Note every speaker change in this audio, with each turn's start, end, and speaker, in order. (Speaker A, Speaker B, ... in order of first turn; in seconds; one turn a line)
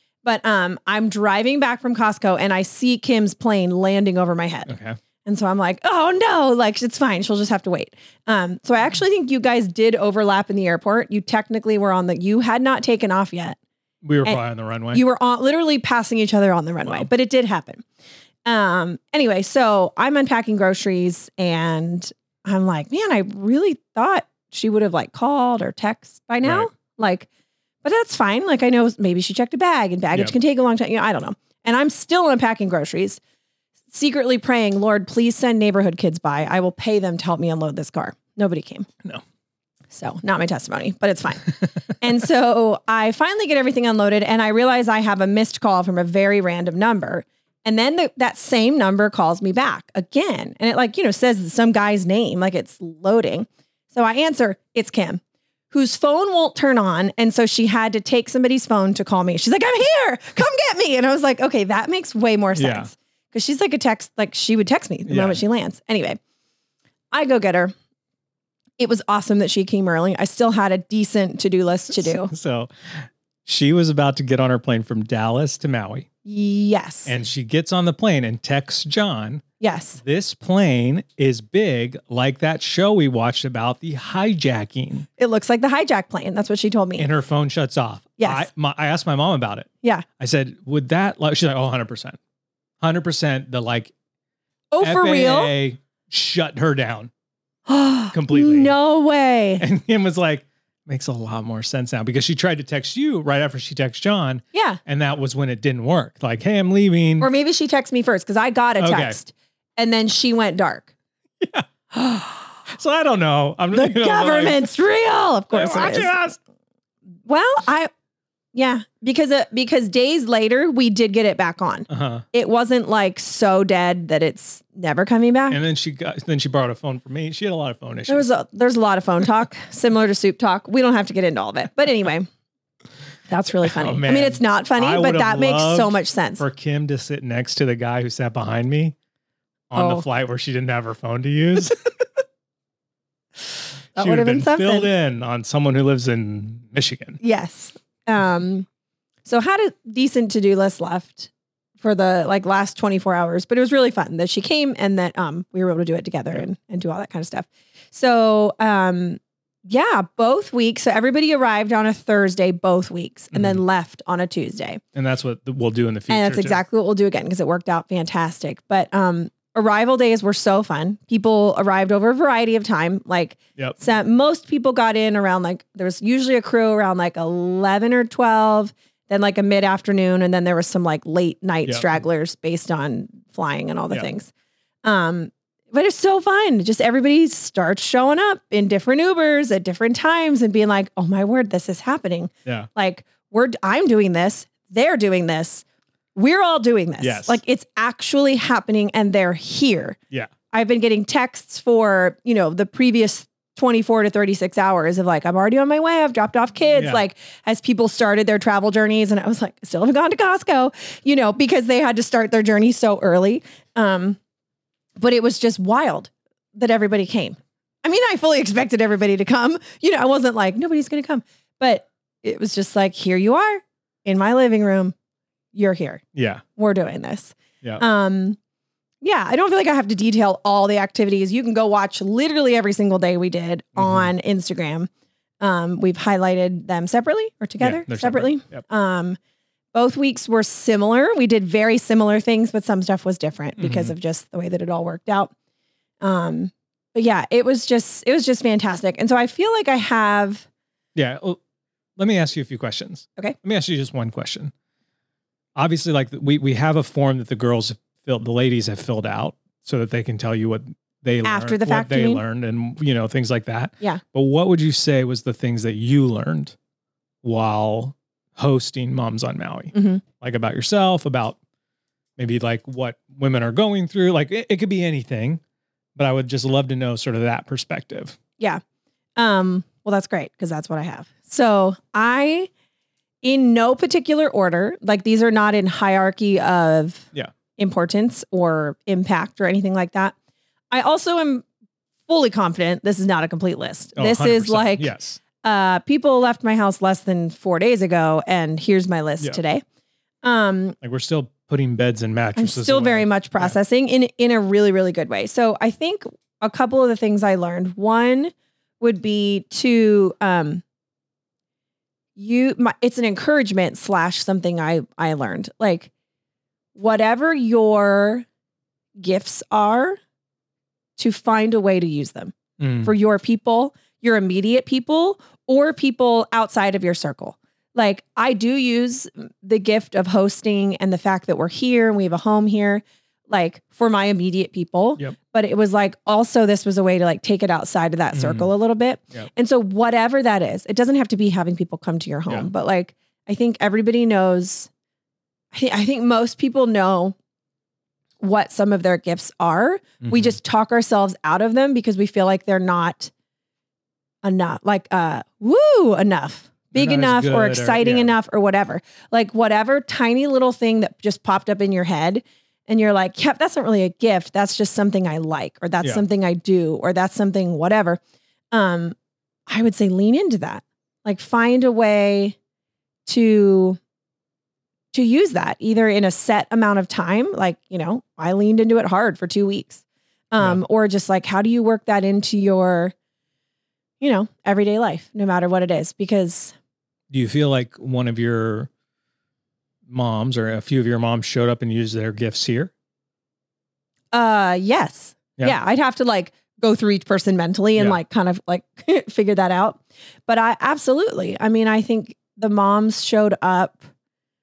Speaker A: 0.2-4.7
Speaker B: 4.7-5.0
Speaker A: 5.3-13.6
Speaker B: 14.0-15.0
Speaker A: 14.9-17.8
Speaker A: 18.4-27.3
Speaker B: 26.4-26.7
Speaker A: 27.8-33.2
Speaker A: 33.9-38.9
Speaker A: 39.9-66.2
Speaker B: 62.6-62.9
Speaker B: 65.1-65.4
Speaker A: 67.1-67.7
Speaker A: 68.8-72.3
Speaker B: 72.0-76.1
Speaker A: 76.2-77.1
Speaker B: 77.1-79.4
Speaker A: 79.6-80.0
Speaker B: 80.0-85.1
Speaker A: 85.2-87.1
Speaker B: 87.0-89.7
Speaker A: 88.2-88.5
Speaker B: 90.2-92.2
Speaker B: 92.8-93.9
Speaker A: 94.7-95.5
Speaker B: 94.8-97.1
Speaker A: 97.7-99.6
Speaker B: 98.1-98.7
Speaker B: 99.6-107.3
Speaker A: 104.5-104.8
Speaker A: 107.2-110.9
Speaker B: 108.8-109.2
Speaker B: 111.4-114.7
Speaker A: 113.7-116.1
Speaker B: 115.5-116.4
Speaker A: 117.3-117.9
Speaker A: 118.5-125.6
Speaker B: 121.9-122.2
Speaker B: 125.5-128.3
Speaker A: 128.1-132.3
Speaker A: 133.3-136.4
Speaker B: 133.6-138.9
Speaker B: 139.7-141.9
Speaker A: 139.8-140.0
Speaker A: 144.0-144.9
Speaker B: 144.0-147.2
Speaker A: 147.2-148.7
Speaker A: 149.2-164.8
Speaker B: 163.3-163.6
Speaker B: 164.9-166.6
Speaker A: 166.1-184.3
Speaker B: 181.7-181.9
Speaker A: 184.8-195.6
Speaker A: 196.1-200.0
Speaker B: 197.0-197.4
Speaker A: 200.5-214.2
Speaker B: 206.8-207.0
Speaker A: 215.0-224.9
Speaker A: 225.5-226.0
Speaker B: 226.1-226.4
Speaker A: 226.6-228.4
Speaker A: 229.0-234.9
Speaker B: 233.8-234.1
Speaker A: 235.4-239.2
Speaker B: 237.6-238.6
Speaker A: 239.7-245.3
Speaker B: 243.6-243.9
Speaker A: 246.0-250.5
Speaker B: 250.9-251.4
Speaker B: 252.0-254.5
Speaker B: 255.6-266.6
Speaker A: 261.2-262.2
Speaker B: 267.2-271.4
Speaker A: 269.7-270.0
Speaker B: 272.2-275.4
Speaker B: 276.0-278.2
Speaker A: 279.2-282.5
Speaker A: 283.2-290.1
Speaker A: 290.7-291.5
Speaker A: 292.1-299.6
Speaker B: 294.0-295.2
Speaker A: 300.2-300.8
Speaker B: 300.8-303.6
Speaker A: 302.4-310.6
Speaker A: 312.2-315.9
Speaker A: 316.8-318.3
Speaker A: 319.0-320.0
Speaker A: 321.0-344.7
Speaker B: 322.6-322.9
Speaker B: 338.1-338.5
Speaker A: 345.5-347.2
Speaker A: 348.2-353.1
Speaker B: 350.0-350.4
Speaker A: 354.2-368.0
Speaker B: 356.8-358.1
Speaker A: 368.5-369.0
Speaker A: 369.5-372.4
Speaker A: 373.1-373.8
Speaker A: 374.9-382.9
Speaker A: 384.0-386.6
Speaker B: 387.1-388.7
Speaker B: 389.9-392.7
Speaker A: 394.1-403.9